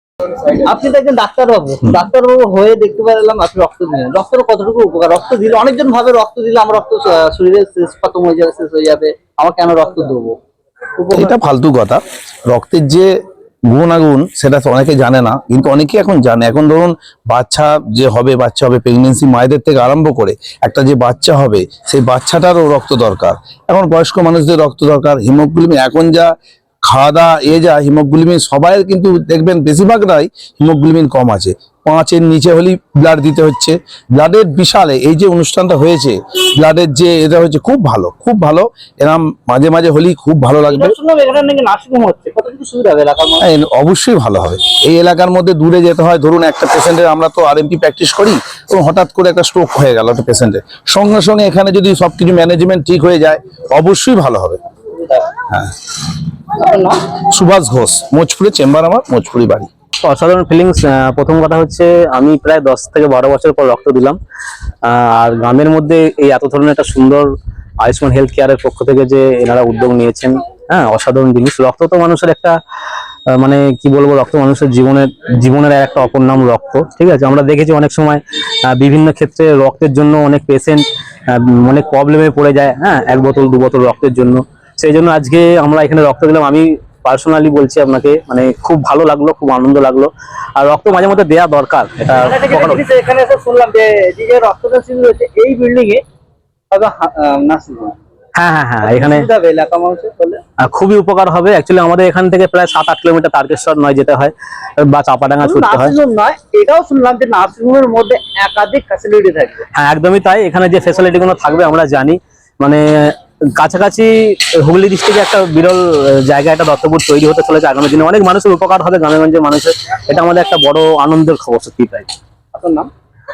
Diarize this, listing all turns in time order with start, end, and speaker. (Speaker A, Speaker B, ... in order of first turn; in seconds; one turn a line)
Speaker A: 0.6-10.3
Speaker A: 11.0-11.3
Speaker B: 11.1-13.1
Speaker B: 13.7-26.3
Speaker B: 26.9-40.9
Speaker A: 40.7-43.4
Speaker B: 43.4-54.6
Speaker A: 56.6-57.0
Speaker B: 57.3-59.7
Speaker C: 60.0-64.2
Speaker C: 64.9-67.3
Speaker C: 67.8-72.6
Speaker C: 73.4-78.2
Speaker C: 78.8-80.8
Speaker C: 81.4-92.8
Speaker A: 92.3-96.0
Speaker A: 96.7-98.0
Speaker C: 98.4-99.3
Speaker A: 98.8-100.4
Speaker C: 100.6-106.0
Speaker A: 105.4-109.6
Speaker C: 109.8-122.1
Speaker A: 122.5-122.9